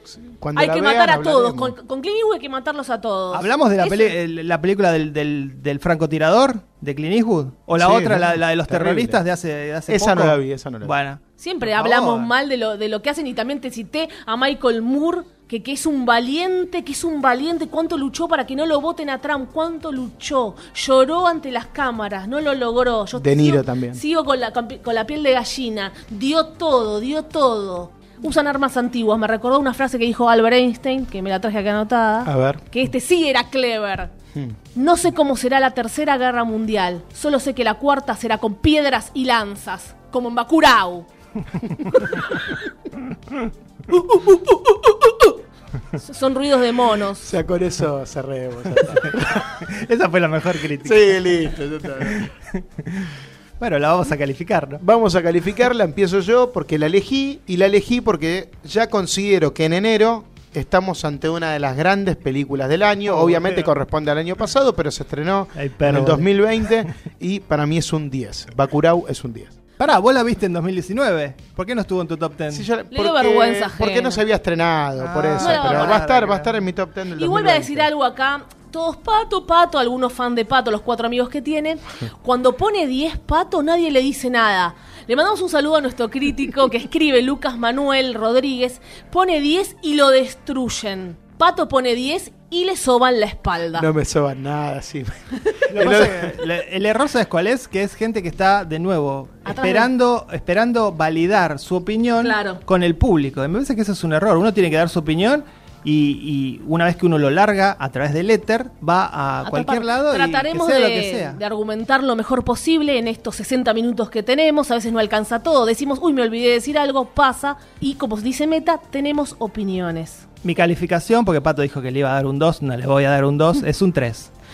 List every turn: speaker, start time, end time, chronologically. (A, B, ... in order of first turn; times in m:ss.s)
0:00.4-0:01.7 A
0:00.5-0:04.1 B
0:03.3-0:12.3 C
0:07.7-0:09.2 A
0:09.9-0:11.0 A
0:11.4-0:34.1 B
0:23.2-0:24.0 A
0:32.2-0:32.6 A
0:34.7-0:41.1 B
0:46.0-0:47.3 B
0:47.2-0:49.5 A
0:49.0-0:51.5 C
0:50.8-0:52.3 A
0:52.0-0:54.8 C
0:54.8-1:09.6 A
1:03.0-1:03.7 C
1:05.6-1:06.3 C
1:09.8-1:12.7 C
1:12.5-1:17.9 A
1:12.9-1:14.2 B
1:15.0-1:16.6 C
1:15.4-1:16.0 B
1:17.2-1:33.9 B
1:33.7-1:36.3 A
1:35.7-1:51.4 C
1:39.4-1:39.9 B
1:42.2-1:42.6 B
1:49.4-2:00.2 B
2:00.4-2:04.3 C